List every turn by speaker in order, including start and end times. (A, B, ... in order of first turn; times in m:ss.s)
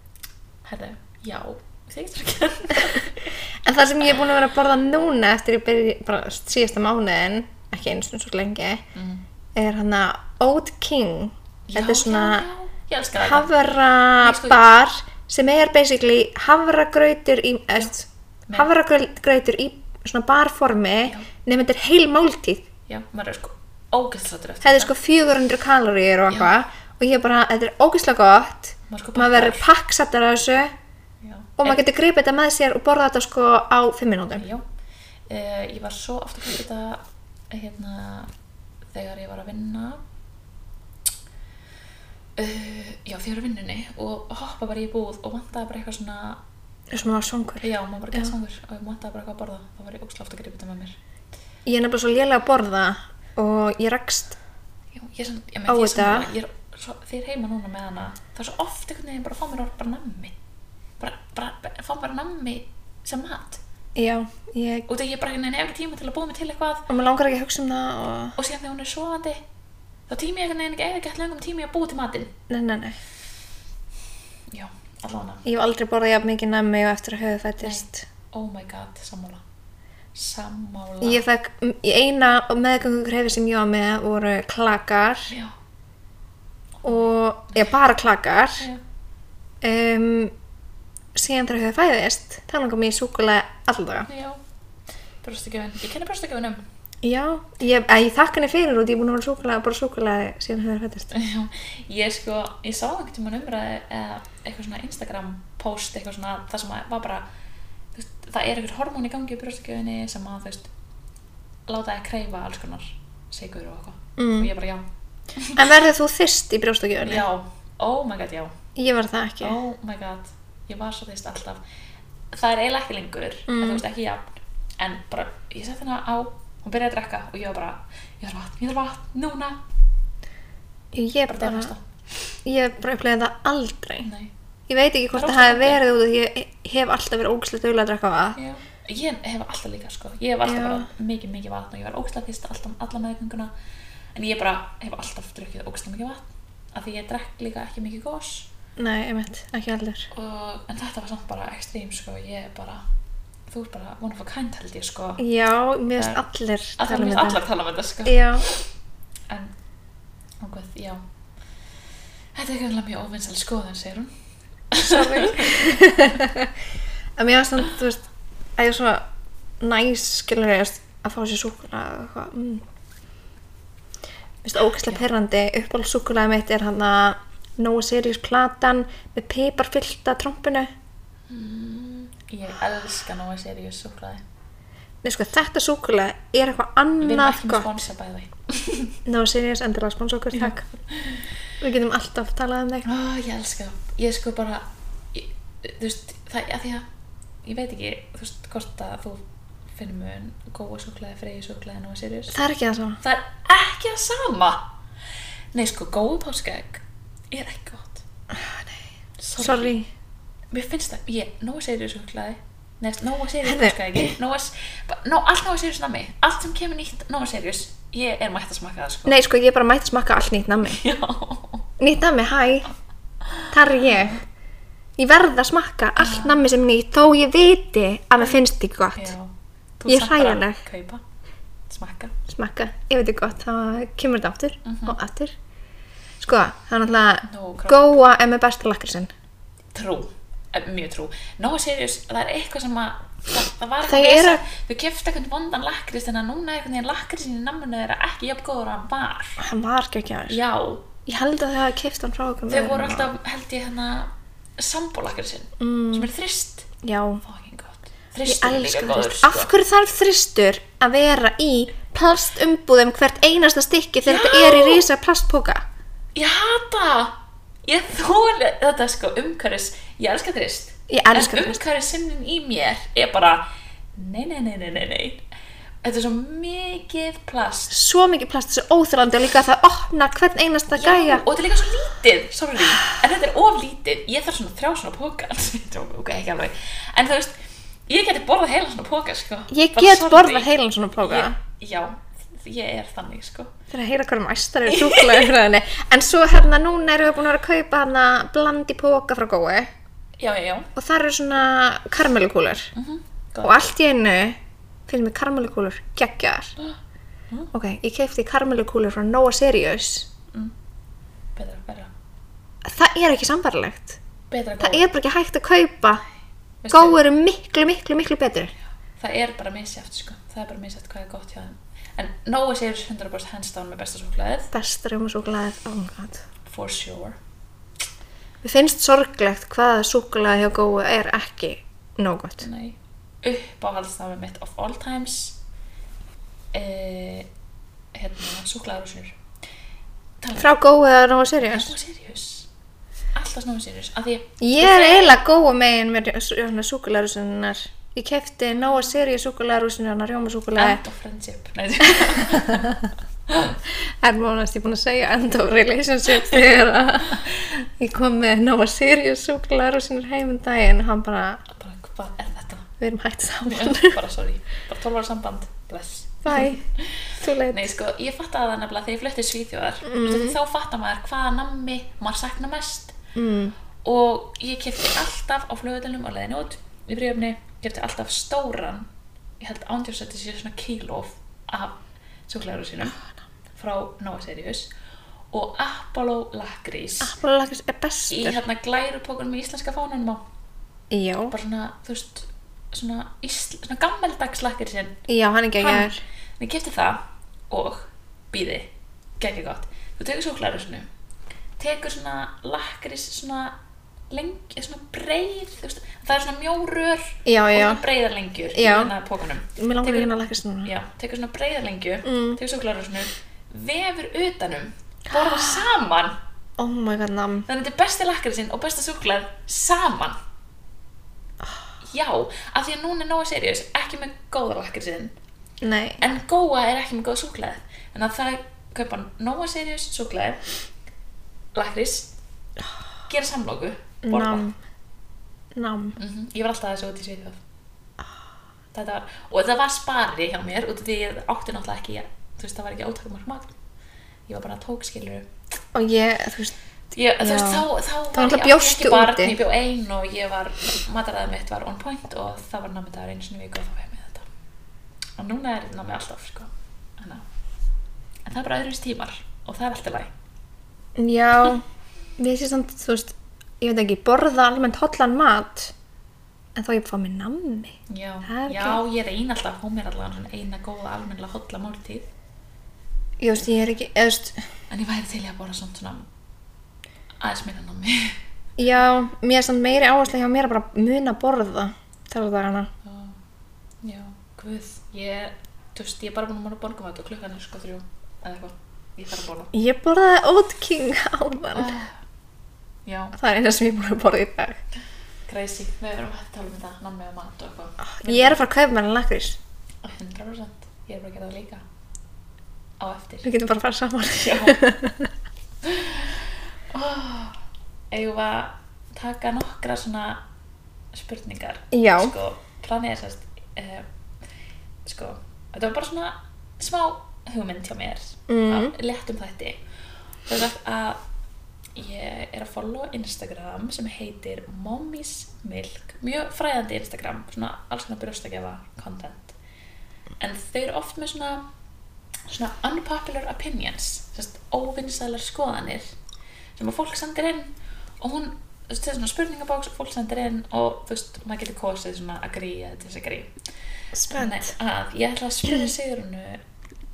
0:00.6-0:03.4 A
0:03.6-0:08.8 B
0:09.0-0:09.2 A
0:09.6-0:12.5 B
0:11.7-0:13.5 A
0:13.2-0:22.7 B
0:14.2-0:14.7 A
0:22.9-0:24.9 A
0:24.6-0:30.7 B
0:28.9-0:29.7 A
0:31.2-0:31.8 A
0:31.6-0:34.4 B
0:34.4-0:34.6 A
0:35.3-0:38.3 A
0:38.9-0:40.0 A
0:42.4-0:46.4 A
0:46.9-0:48.3 B
0:47.6-0:51.0 A
0:51.7-0:54.4 B
0:54.9-1:00.4 A
0:55.7-0:56.3 B
1:01.0-1:03.6 A
1:04.0-1:04.9 B
1:04.9-1:06.9 A
1:06.9-1:08.4 B
1:08.4-1:09.4 A
1:10.1-1:12.3 A
1:12.5-1:13.0 B
1:14.5-1:15.4 A
1:15.4-1:18.1 B
1:17.6-1:19.4 A
1:20.2-1:21.2 A
1:21.0-1:25.3 B
1:26.8-1:27.1 A
1:26.8-1:28.7 B
1:29.6-1:30.3 B
1:31.2-1:34.1 B
1:34.1-1:34.4 A
1:35.2-1:36.6 A
1:37.0-1:41.2 B
1:41.1-1:47.2 A
1:48.0-1:50.7 A
1:51.7-1:54.8 A
1:54.2-1:54.5 B
1:55.4-1:55.6 A
1:55.5-1:57.2 B
1:57.0-1:58.5 A
1:58.8-1:59.6 B
1:59.4-2:01.6 A
2:02.3-2:09.6 A
2:03.5-2:03.8 B
2:10.9-2:11.7 B
2:11.3-2:11.8 A
2:12.4-2:14.1 B
2:14.0-2:14.3 A
2:14.7-2:18.4 B
2:15.1-2:15.8 A
2:18.4-2:23.5 A
2:20.4-2:20.9 B
2:24.2-2:28.5 A
2:28.8-2:30.1 B
2:30.1-2:32.8 A
2:33.5-2:35.2 A
2:35.2-2:37.4 B
2:36.0-2:36.2 A
2:36.8-2:38.6 A
2:38.0-2:38.4 B
2:40.4-2:41.0 A
2:42.4-2:44.1 A
2:44.7-2:45.7 A
2:44.8-2:46.5 B
2:47.2-2:48.0 B
2:48.6-2:49.0 B
2:49.6-2:52.6 B
2:54.4-3:00.7 B
3:01.3-3:04.2 A
3:05.0-3:07.7 B
3:07.0-3:09.0 A
3:09.1-3:10.7 B
3:10.3-3:11.2 A
3:11.6-3:12.9 B
3:12.8-3:16.8 A
3:17.4-3:19.2 A
3:19.8-3:22.4 A
3:22.3-3:23.0 B
3:23.0-3:24.7 A
3:25.5-3:28.0 A
3:28.3-3:28.8 B
3:29.2-3:29.8 A
3:29.4-3:29.9 B
3:30.5-3:39.2 A
3:33.4-3:34.1 B
3:39.1-3:40.8 B
3:40.6-3:41.7 A
3:41.8-3:42.7 B
3:43.3-3:43.5 A
3:43.5-3:44.2 B
3:45.0-3:49.1 B
3:46.0-3:46.4 A
3:49.0-3:51.0 A
3:49.9-3:50.6 B
3:51.7-3:52.2 A
3:52.3-3:55.3 B
3:54.6-3:55.0 A
3:56.2-3:59.1 B
3:57.2-3:58.0 A
3:59.7-4:09.4 A
4:03.8-4:04.4 B
4:09.4-4:10.4 B
4:10.3-4:10.9 A
4:11.1-4:13.1 B
4:12.5-4:16.7 A
4:15.6-4:16.1 B
4:16.8-4:17.2 B
4:17.2-4:19.5 A
4:18.2-4:25.7 B
4:24.0-4:24.9 A
4:26.2-4:35.2 A
4:30.9-4:31.6 B
4:35.8-4:37.8 A
4:37.7-4:41.2 B
4:40.7-4:50.5 A
4:49.5-4:51.3 B
4:51.0-4:53.5 A
4:53.7-4:59.7 B
4:54.7-4:55.3 A
5:00.2-5:00.7 A
5:00.8-5:02.7 B
5:02.8-5:03.6 A
5:03.4-5:06.5 B
5:07.5-5:10.1 B
5:11.4-5:11.9 A
5:12.6-5:14.0 B
5:14.3-5:14.8 A
5:14.6-5:16.0 B
5:16.6-5:17.0 A
5:16.7-5:18.5 B
5:19.0-5:24.5 A
5:24.5-5:26.2 B
5:26.4-5:27.2 A
5:28.4-5:32.5 B
5:32.4-5:35.4 A
5:36.5-5:37.3 A
5:37.9-5:39.2 A
5:40.2-5:40.5 A
5:40.4-5:41.8 B
5:41.4-5:42.5 A
5:43.2-5:45.2 A
5:44.4-5:50.8 B
5:50.6-5:53.6 A
5:52.0-5:52.8 B
5:53.6-6:01.4 B
6:01.5-6:02.7 A
6:02.8-6:04.0 B
6:03.4-6:13.0 A
6:06.2-6:06.6 B
6:07.2-6:07.7 B
6:09.8-6:10.4 B
6:13.2-6:13.6 B
6:13.8-6:18.9 A
6:19.4-6:23.0 A
6:23.6-6:24.7 A
6:25.3-6:27.2 A
6:27.0-6:28.4 B
6:28.1-6:30.2 A
6:30.9-6:31.4 B
6:31.3-6:35.0 A
6:35.1-6:36.0 B
6:35.6-6:38.7 A
6:39.2-6:40.9 A
6:41.6-6:43.6 A
6:44.1-6:50.1 A
6:47.3-6:47.8 B
6:48.5-6:48.9 B
6:49.6-6:50.7 B
6:50.6-6:56.2 A
6:52.0-6:52.4 B
6:55.1-6:55.6 B
6:56.6-6:57.5 B
6:57.5-7:00.2 A
7:01.8-7:05.1 A
7:05.6-7:06.0 B
7:06.0-7:10.4 A
7:11.5-7:12.2 A
7:13.1-7:14.5 A
7:14.0-7:14.6 B
7:15.6-7:16.0 B
7:16.0-7:17.4 A
7:18.7-7:23.5 A
7:24.3-7:25.3 A
7:25.7-7:26.6 B
7:26.9-7:34.3 A
7:27.2-7:29.4 B
7:35.2-7:37.2 A
7:38.2-7:40.1 A
7:41.0-7:41.6 B
7:42.2-7:45.7 B
7:46.6-7:48.8 B
7:47.9-7:52.1 A
7:53.2-7:54.4 B
7:54.7-7:56.1 A
7:57.2-7:58.2 A
7:58.6-8:02.7 B
8:02.8-8:03.2 A
8:03.8-8:09.5 A
8:09.5-8:11.8 B
8:11.6-8:12.0 A
8:12.9-8:13.2 A
8:13.2-8:14.6 B
8:15.3-8:18.4 A
8:17.9-8:19.4 B
8:19.8-8:21.6 A
8:22.8-8:23.3 A
8:23.2-8:25.1 B
8:24.2-8:24.6 A
8:25.6-8:27.4 A
8:27.9-8:30.2 A
8:30.9-8:33.9 A
8:31.7-8:32.1 B
8:34.9-8:39.6 A
8:38.3-8:38.7 B
8:40.3-8:41.0 A
8:41.8-8:49.4 A
8:50.2-8:51.4 A
8:52.3-8:55.9 A
8:56.6-9:03.3 A
9:03.9-9:04.5 B
9:04.1-9:06.4 A